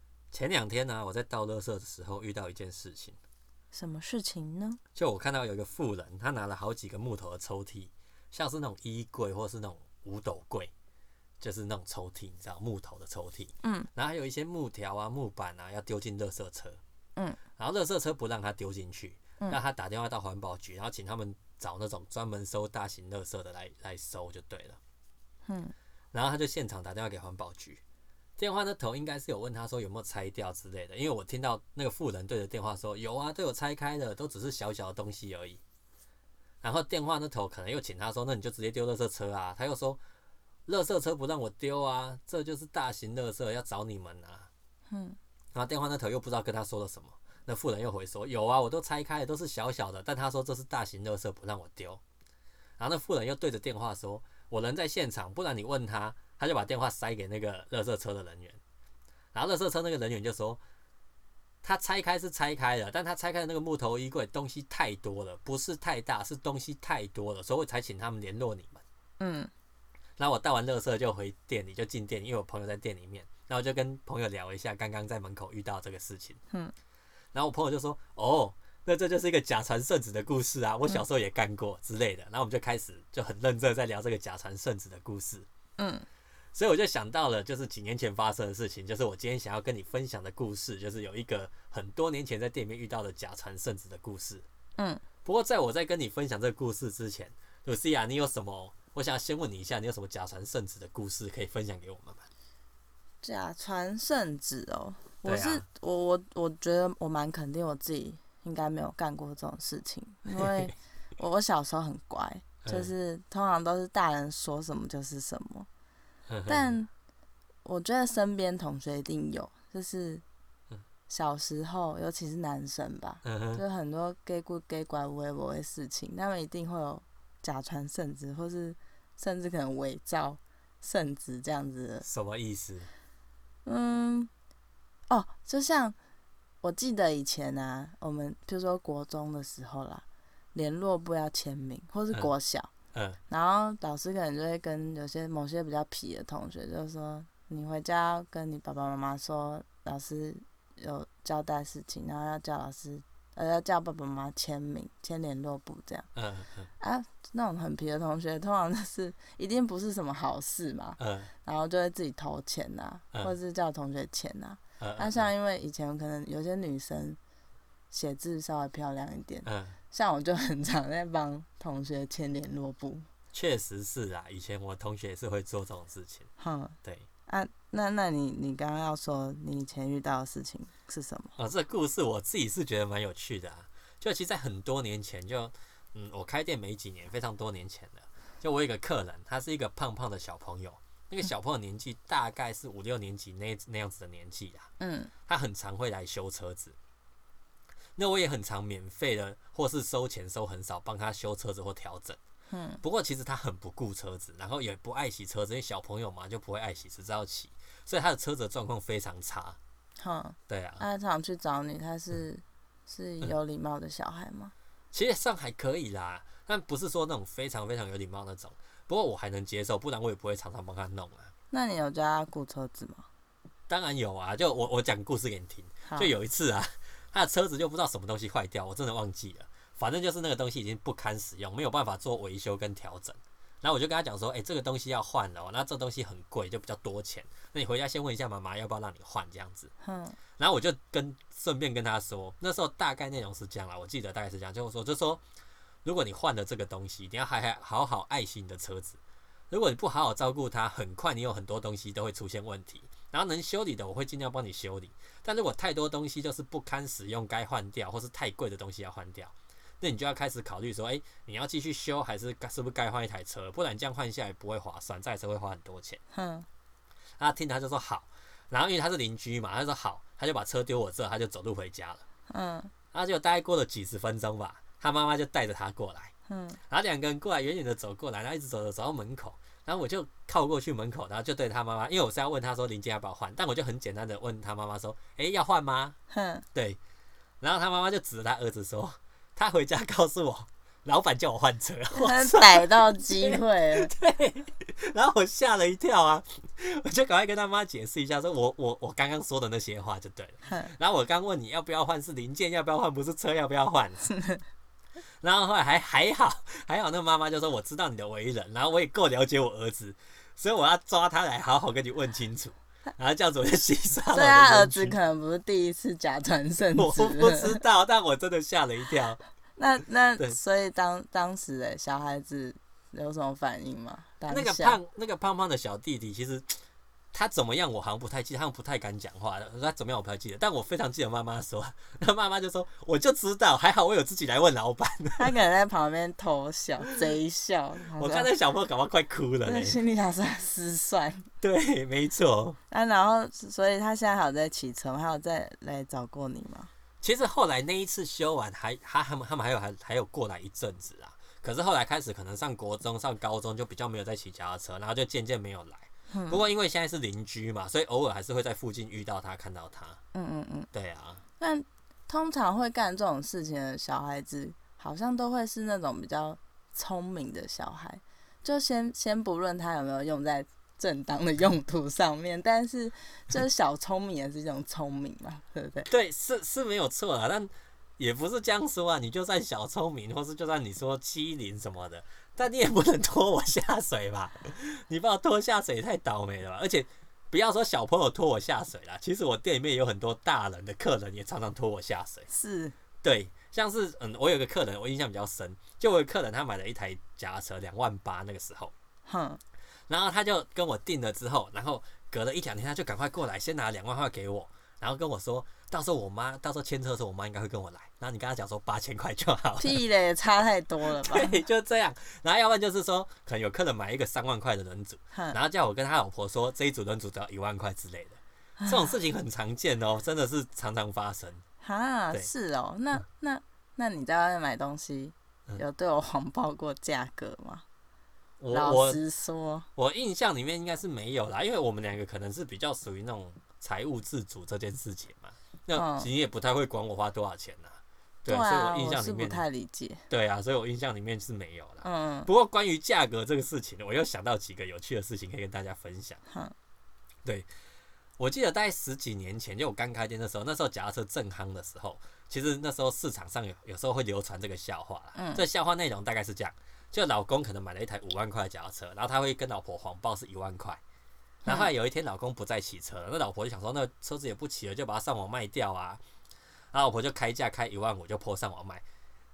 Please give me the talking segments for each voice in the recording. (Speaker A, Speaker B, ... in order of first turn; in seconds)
Speaker A: 0.3-3.2, 5.0-10.7, 11.4-16.8, 17.6-24.8, 26.1-27.8, 28.4-35.6, 36.6-40.0, 40.7-44.5, 45.5-52.0, 52.8-58.6, 59.3-60.6, 61.6-68.8, 70.2-76.4, 77.3-85.5, 86.5-94.5, 95.2-102.3, 105.3-105.7, 110.3-110.7, 112.7-112.9, 116.3-116.8, 123.2-123.6, 132.1-132.9, 142.9-143.2, 156.2-156.7, 161.0-161.3, 164.8-165.3, 169.4-169.8, 173.3-176.3, 181.4-194.7, 195.3-196.8, 198.0-202.2, 202.8-209.6, 210.5-210.8, 214.9-221.3, 223.7-239.7, 240.4-245.2, 245.8-249.0, 249.5-266.0, 267.2-272.0, 272.9-276.1, 276.7-286.0, 286.5-286.8, 287.4-304.1, 305.2-315.0, 316.8-319.2, 324.3-326.6, 327.1-335.4, 338.0-339.8, 341.4-342.6, 347.0-360.0, 360.7-361.2, 375.9-392.3, 393.0-398.7, 399.9-409.8, 410.9-421.4, 428.4-429.0, 429.8-439.4, 440.1-446.2, 448.2-460.8, 461.5-466.0, 466.7-468.8
Speaker B: 3.7-4.8, 13.6-13.9, 25.5-25.7, 44.9-45.2, 69.2-69.5, 85.8-86.1, 103.2-115.7, 116.5-116.9, 117.6-120.2, 121.1-132.1, 133.7-134.3, 135.1-135.9, 136.6-142.7, 143.3-156.1, 156.8-167.2, 167.9-173.1, 176.4-176.8, 177.3-181.3, 194.8-195.1, 202.5-202.8, 210.0-214.5, 221.5-223.1, 239.8-240.2, 266.1-266.5, 272.3-272.7, 276.3-276.6, 286.1-286.4, 292.0-293.9, 304.1-304.4, 314.1-317.6, 319.6-324.8, 335.2-338.3, 339.4-341.3, 342.7-346.7, 356.1-356.4, 360.1-360.7, 361.4-375.9, 392.3-392.8, 399.1-399.4, 409.6-411.4, 418.6-418.9, 421.6-427.6, 428.5-429.7, 435.8-436.1, 438.3-440.0, 441.8-442.3, 446.3-446.6, 455.1-455.4, 461.4-461.7